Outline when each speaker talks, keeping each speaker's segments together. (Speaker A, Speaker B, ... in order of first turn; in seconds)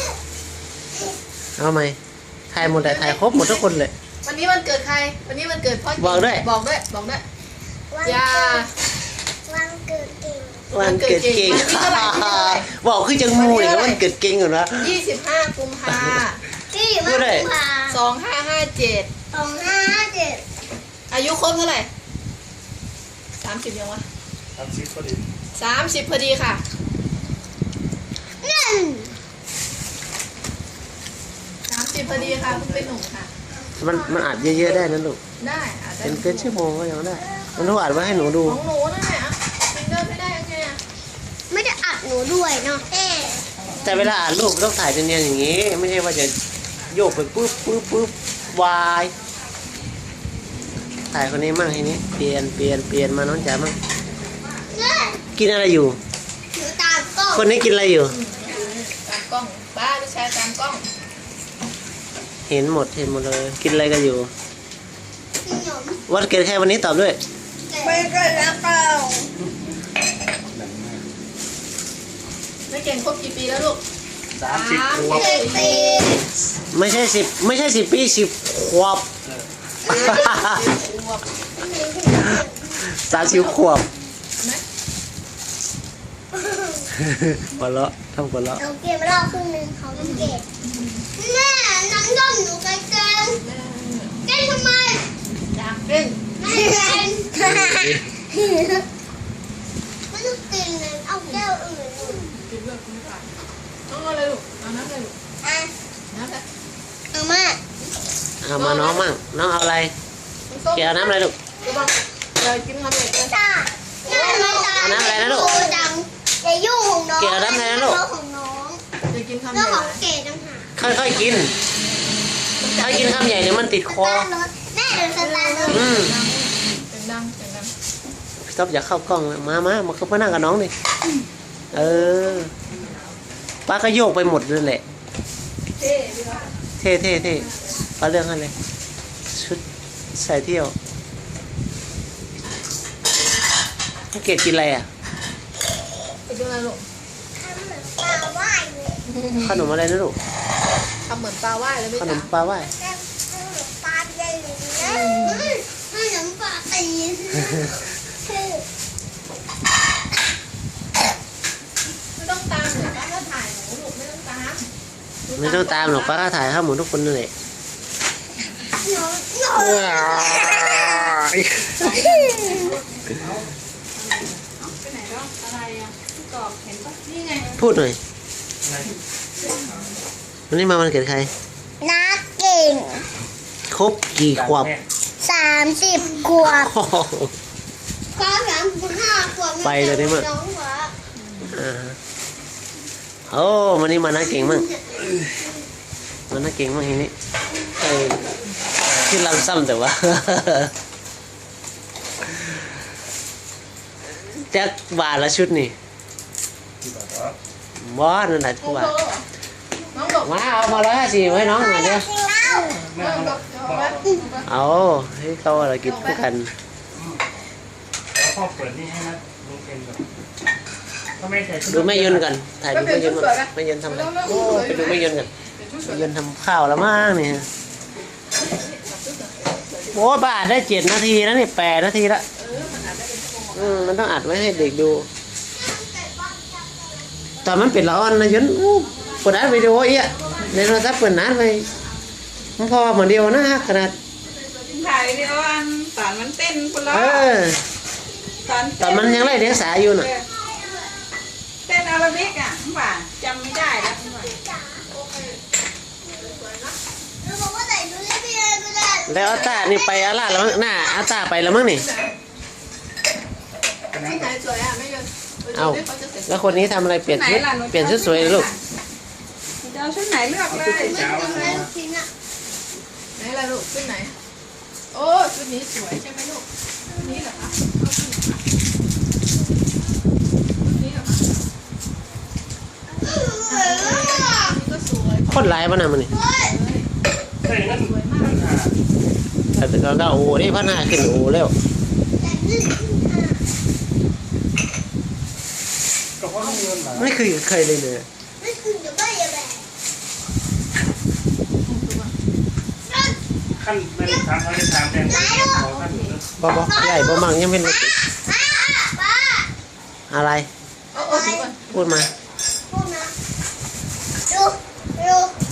Speaker A: 1.6-2.0, 2.5-3.9, 6.0-6.4, 10.7-14.9, 15.9-16.2, 17.0-17.5, 33.8-35.2, 36.0-38.6, 43.8-46.3, 46.9-49.1, 51.1-53.8, 55.3-56.0, 57.3-58.1, 62.5-64.3, 66.1-67.2, 76.7-79.1, 79.9-80.6, 82.9-83.9, 87.0-88.6, 97.3-98.0, 108.4-109.9, 110.7-111.3, 114.8-115.6, 117.2-118.0, 120.8-121.5, 122.8-124.3, 125.7-126.1, 128.4-130.7, 131.7-132.5, 133.7-134.8, 136.8-138.5, 139.3-139.6, 140.1-140.7, 144.1-144.9, 149.4-150.2, 152.0-152.7, 165.4-167.3, 171.2-171.7, 177.6-178.0, 180.5-181.3, 183.7-184.7, 186.4-187.3, 189.6-190.3, 191.5-192.0, 193.3-194.7, 196.3-197.1, 197.8-198.3, 198.8-200.7, 204.5-205.7, 207.8-208.9, 210.2-212.1, 214.4-216.5, 221.7-225.3, 225.8-227.5, 229.9-232.2, 233.5-235.1, 237.4-241.7, 242.6-243.9, 246.9-247.6, 248.8-250.1, 259.1-261.9, 265.5-268.5, 285.3-286.1, 289.5-291.5, 296.9-298.1, 306.4-307.9, 310.1-310.5, 311.7-312.1
Speaker B: 2.6-3.6, 4.2-7.2, 8.0-8.7, 10.8-12.7, 13.3-14.0, 14.8-16.4, 17.9-19.1, 21.1-21.9, 23.4-24.0, 25.5-26.6, 31.7-33.3, 35.4-36.5, 38.4-40.8, 58.1-60.8, 72.7-73.8, 74.4-76.0, 79.8-81.2, 83.1-83.7, 89.9-91.0, 93.3-94.2, 95.5-96.9, 102.1-103.3, 103.9-105.1, 106.1-106.4, 108.5-109.0, 110.5-113.4, 114.0-115.9, 119.1-120.0, 122.6-123.4, 124.9-127.7, 131.7-133.0, 135.8-136.5, 146.3-146.8, 149.1-149.5, 151.1-152.3, 154.8-155.5, 162.2-164.6, 165.2-166.2, 177.1-177.5, 208.6-209.2, 209.9-210.3, 212.5-214.5, 215.8-216.2, 222.7-226.1, 228.3-230.1, 232.3-235.0, 238.9-240.9, 244.2-245.3, 254.9-255.4, 256.1-256.8, 261.7-262.1, 264.0-266.7, 273.1-274.1, 274.9-278.2, 280.6-281.4, 283.3-286.9, 287.7-288.4, 296.4-296.8, 301.6-302.1, 305.3-306.2, 310.9-312.0
Speaker C: 7.9-8.7, 9.5-10.7, 16.7-18.0, 19.3-20.4, 28.4-29.1, 33.5-34.6, 37.2-38.4, 41.5-43.5, 54.7-55.2, 56.5-57.5, 65.4-66.0, 67.7-68.2, 75.0-76.2, 81.6-82.8, 86.3-86.9, 88.6-90.4, 91.2-93.4, 94.2-95.1, 96.4-98.8, 100.1-102.3, 105.4-105.7, 107.1-107.6, 113.3-118.8, 119.5-120.7, 123.9-125.8, 147.3-149.0, 152.5-158.6, 168.8-171.2, 171.8-172.7, 181.8-183.0, 185.2-186.7, 188.1-190.9, 194.3-195.1, 211.1-212.8, 235.5-237.3, 248.1-251.1, 253.7-254.8, 256.0-256.3, 257.2-261.1, 270.5-272.1, 276.9-277.2, 283.0-284.6, 286.1-286.5, 292.1-293.4, 298.4-299.6, 302.9-303.1, 305.0-305.7, 306.5-309.5, 310.9-311.5, 312.7-313.1, 314.3-315.3
Speaker D: 24.6-25.2, 32.0-32.9, 70.5-71.0, 74.3-75.6, 178.6-178.9, 184.3-184.8, 206.8-207.3, 212.7-214.2, 216.9-217.2, 218.1-220.0, 221.2-222.2, 263.9-264.3, 270.5-271.7, 287.4-288.7, 296.2-297.1, 303.6-306.3
Speaker E: 54.0-54.7, 58.3-58.7, 67.8-69.3, 172.0-172.7, 174.0-177.0, 244.7-247.3, 248.4-249.3, 249.9-250.2, 251.6-254.3, 267.1-268.6, 269.6-270.9